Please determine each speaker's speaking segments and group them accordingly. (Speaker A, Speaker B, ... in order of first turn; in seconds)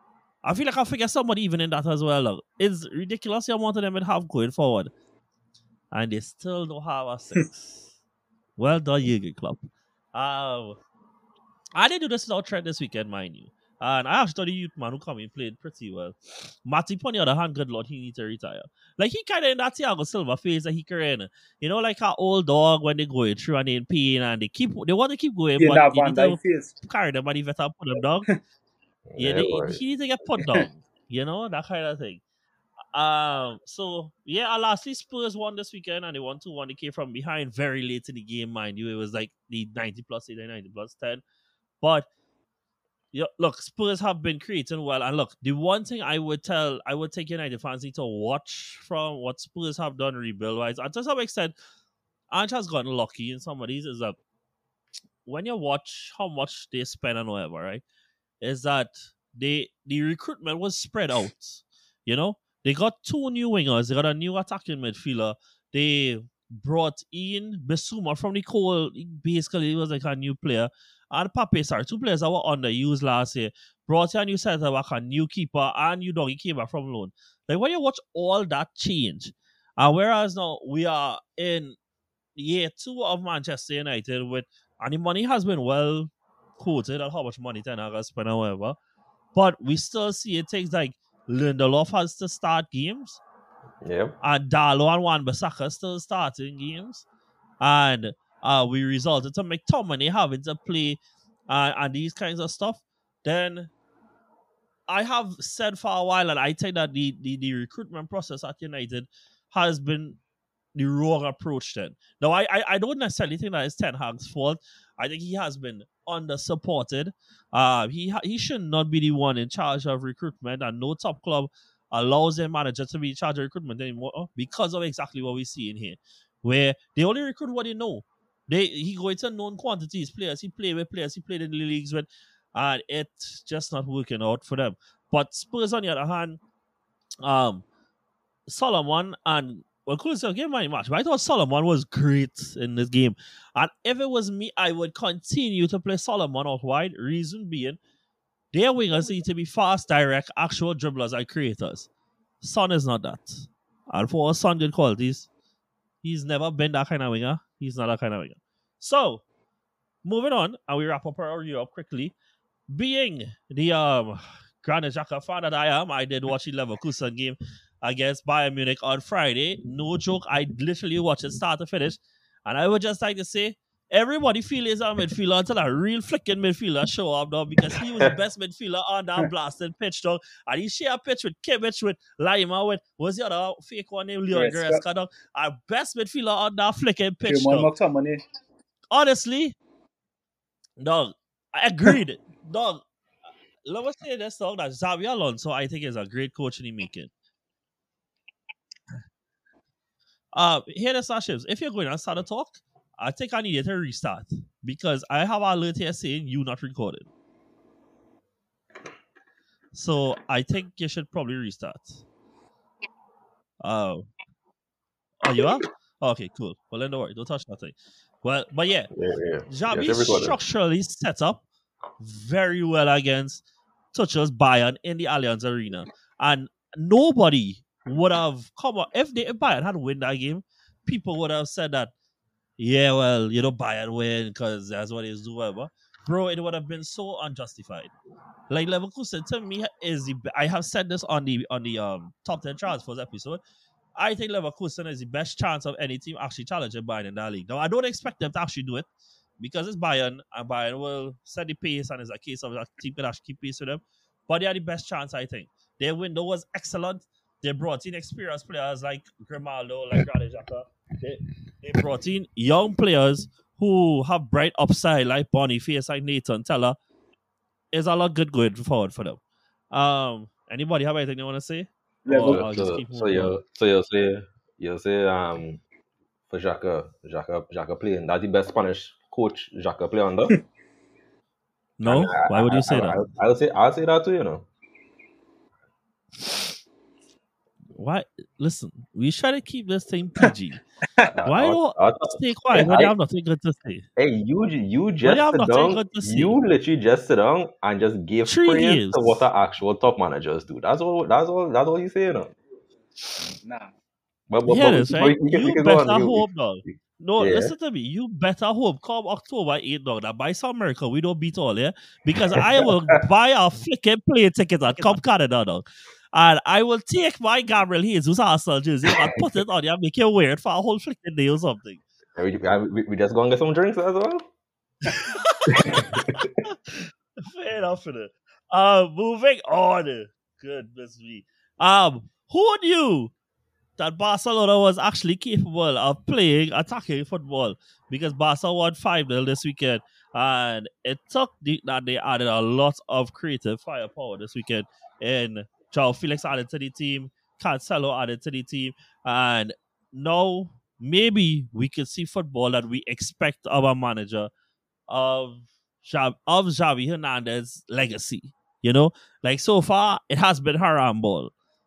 Speaker A: 0.4-4.9, 5.9-7.9, 8.6-10.8, 11.8-28.3, 29.2-32.2, 32.9-41.2, 41.8-42.1, 43.1-51.5, 52.3-54.2, 55.3-57.8, 58.4-81.8, 82.4-88.8, 89.3-93.2, 94.2-97.1, 97.6-103.7, 104.9-110.2, 110.8-136.4, 137.2-137.7, 138.5-147.8, 148.5-151.9, 152.4-155.3, 156.0-159.2, 160.0-162.2, 162.7-187.7, 188.9-189.6, 190.8-192.8, 193.7-197.1, 200.3-207.1, 209.7-212.1, 213.6-214.1, 215.2-218.9, 219.5-221.4, 222.0-223.4, 223.9-231.9, 232.6-237.9, 238.5-243.4, 244.0-248.9, 249.4-266.8, 267.7-269.2, 269.7-273.4, 281.8-283.0, 287.8-290.6, 291.3-293.9, 295.0-296.4, 298.3-299.2, 304.5-321.8, 324.9-333.1, 333.8-354.3, 354.9-361.3
Speaker B: 25.6-26.8, 184.3-184.8, 187.3-188.2, 272.1-272.4, 303.4-303.7
Speaker C: 29.1-29.8, 93.8-94.2, 218.9-220.4, 272.2-275.6, 276.3-280.4, 281.8-284.5, 291.1-292.9, 294.0-302.4, 304.3-307.5, 312.3-312.7, 322.2-324.3, 325.5-326.3